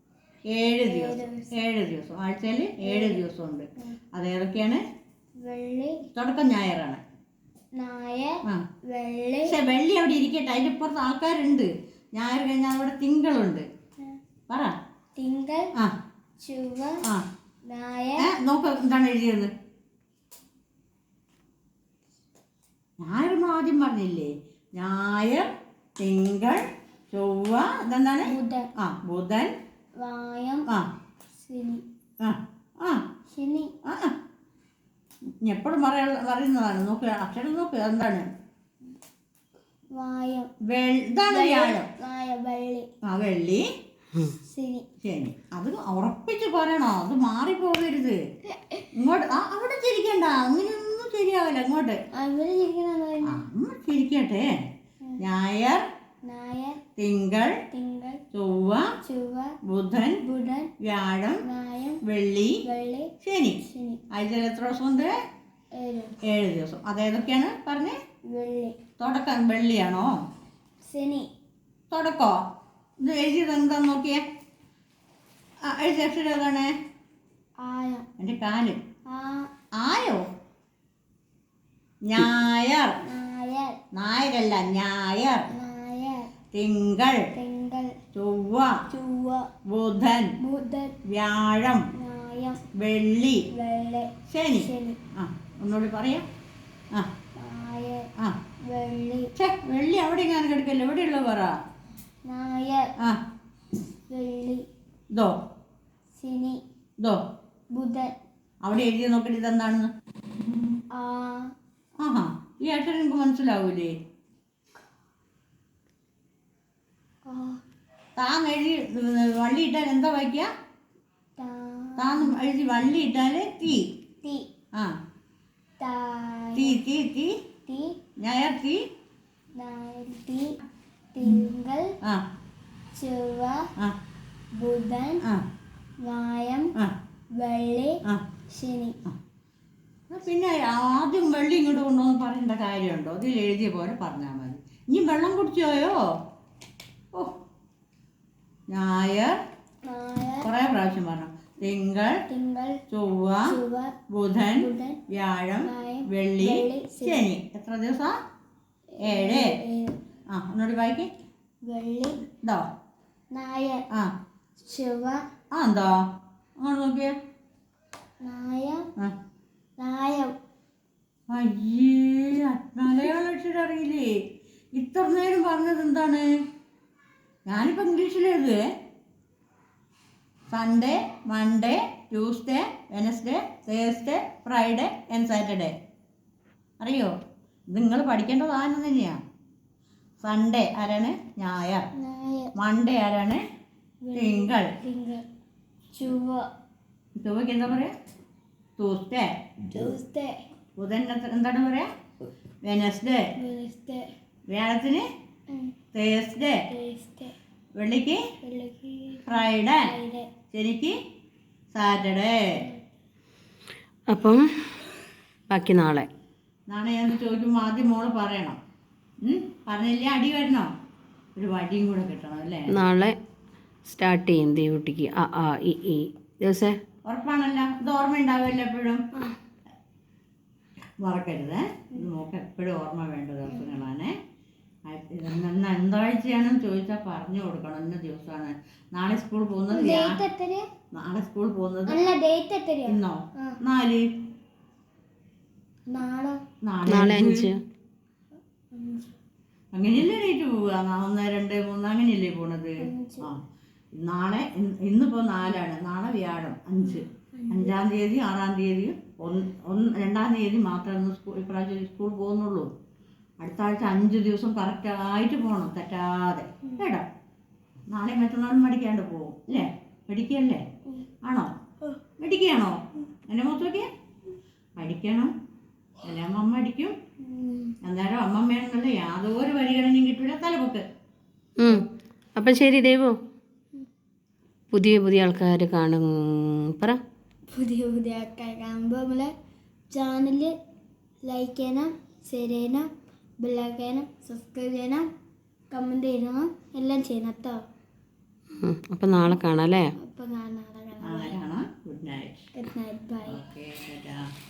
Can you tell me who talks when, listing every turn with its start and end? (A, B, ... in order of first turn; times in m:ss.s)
0:00.5-0:04.8 A
0:00.8-0:01.5 B
0:02.8-0:03.2 B
0:05.4-0:06.0 B
0:06.1-0:07.0 A
0:07.8-0:09.5 B
0:09.4-0:13.6 A
0:15.2-0:15.7 B
0:16.4-0:17.0 B
0:17.6-0:18.3 B
0:18.2-0:19.5 A
0:23.0-0:25.5 A
0:26.0-0:29.5 A
0:28.2-0:28.7 B
0:30.0-0:30.7 B
0:31.4-0:31.8 B
0:32.2-0:33.0 A
0:33.3-0:33.7 B
0:33.8-0:34.2 A
0:35.4-0:38.2 A
0:39.9-0:40.5 B
0:40.7-0:41.9 A
0:41.3-0:42.9 B
0:43.0-0:43.6 A
0:44.4-0:44.8 B
0:45.0-0:48.2 A
0:48.9-0:52.0 A
0:52.1-0:53.4 B
0:53.2-0:54.5 A
0:55.2-0:55.8 A
0:56.2-0:56.8 B
0:57.0-0:57.5 A
0:57.7-0:58.2 B
0:58.3-0:58.9 A
0:59.0-0:59.6 B
0:59.7-1:00.2 A
1:00.2-1:00.7 B
1:00.8-1:01.4 A
1:01.4-1:02.0 B
1:02.0-1:02.6 A
1:02.6-1:04.0 B
1:03.2-1:05.1 A
1:05.7-1:06.2 B
1:06.2-1:08.0 A
1:08.3-1:08.8 B
1:09.0-1:10.1 A
1:10.8-1:11.3 B
1:11.9-1:12.4 A
1:13.0-1:14.2 A
1:15.6-1:16.7 A
1:17.6-1:18.0 B
1:18.2-1:18.8 A
1:19.1-1:19.5 B
1:19.8-1:20.3 A
1:22.1-1:22.9 A
1:23.0-1:23.8 B
1:23.9-1:25.4 A
1:25.5-1:26.3 B
1:26.5-1:27.2 A
1:27.3-1:27.9 B
1:28.1-1:28.7 A
1:28.9-1:29.5 B
1:29.7-1:30.3 A
1:30.4-1:31.0 B
1:31.0-1:31.8 A
1:32.0-1:32.6 B
1:32.7-1:33.4 A
1:33.5-1:35.0 B
1:34.3-1:36.2 A
1:37.4-1:38.1 B
1:38.7-1:39.3 B
1:39.4-1:41.5 A
1:42.2-1:42.8 B
1:44.1-1:44.6 B
1:46.1-1:46.6 B
1:47.7-1:48.2 B
1:48.6-1:49.9 A
1:50.9-1:51.5 B
1:52.0-1:53.9 A
1:57.2-1:57.6 B
1:58.2-2:00.5 A
2:01.4-2:02.3 B
2:02.0-2:03.9 A
2:04.2-2:04.5 B
2:05.8-2:06.8 B
2:06.5-2:07.3 A
2:07.6-2:08.0 B
2:08.2-2:08.8 A
2:09.6-2:10.6 B
2:11.1-2:11.9 B
2:12.9-2:13.7 B
2:14.6-2:15.2 B
2:16.0-2:16.7 B
2:17.4-2:18.0 B
2:18.5-2:19.0 B
2:20.1-2:26.0 A
2:27.1-2:27.4 A
2:28.7-2:29.4 A
2:29.8-2:30.5 B
2:30.4-2:32.1 A
2:32.3-2:32.8 B
2:32.9-2:33.5 A
2:33.4-2:33.9 B
2:34.1-2:38.2 A
2:34.6-2:35.0 B
2:35.6-2:37.2 B
2:39.0-2:40.0 B
2:39.0-2:39.5 A
2:40.3-2:41.1 A
2:41.6-2:42.2 B
2:43.3-2:43.8 B
2:44.6-2:45.2 B
2:45.5-2:45.9 A
2:46.6-2:47.1 A
2:48.2-2:48.8 B
2:49.8-2:50.3 B
2:51.3-2:54.2 A
2:54.7-2:56.3 A
2:57.4-2:58.6 A
3:00.5-3:05.7 A
3:06.8-3:07.1 A
3:07.7-3:09.2 A
3:10.2-3:11.9 A
3:12.0-3:12.5 B
3:12.6-3:13.4 A
3:14.0-3:15.2 B
3:14.2-3:14.7 A
3:15.9-3:16.5 B
3:17.2-3:17.9 A
3:18.8-3:19.3 A
3:19.7-3:20.4 B
3:20.8-3:21.9 A
3:22.6-3:23.2 A
3:23.4-3:24.1 B
3:24.5-3:25.0 A
3:25.9-3:26.6 A
3:26.7-3:27.3 B
3:27.8-3:28.2 A
3:28.4-3:30.3 B
3:29.2-3:29.9 A
3:30.5-3:30.9 A
3:31.7-3:32.5 A
3:34.1-3:34.4 C
3:35.5-3:36.1 C
3:36.7-3:38.6 A
3:39.2-3:40.7 A
3:41.4-3:42.7 A
3:42.7-3:43.1 C
3:43.9-3:46.8 C
3:47.0-3:49.1 A
3:51.0-3:54.1 A
3:54.8-4:00.2 A
3:59.7-4:00.6 B
4:00.9-4:02.0 A
4:01.9-4:03.6 B
4:02.8-4:04.0 A
4:05.9-4:06.4 B
4:06.6-4:07.5 A
4:06.9-4:07.6 C
4:08.7-4:09.1 B
4:09.7-4:13.4 A
4:12.8-4:13.3 B
4:13.9-4:22.7 A
4:16.8-4:17.7 B
4:23.4-4:27.1 A
4:27.9-4:30.6 A
4:31.2-4:31.5 A
4:32.2-4:33.9 A
4:34.8-4:35.3 A
4:36.0-4:36.9 A
4:37.2-4:37.7 B
4:37.8-4:40.8 A
4:41.6-4:43.2 C
4:44.7-4:47.0 C
4:47.5-4:49.3 B
4:49.9-4:50.5 B
4:51.2-4:52.9 B
4:53.4-4:55.1 B
4:55.7-4:57.6 B
4:58.6-4:59.9 C
5:00.0-5:01.4 B
5:01.0-5:02.5 A
5:02.5-5:03.4 B
5:03.2-5:04.3 A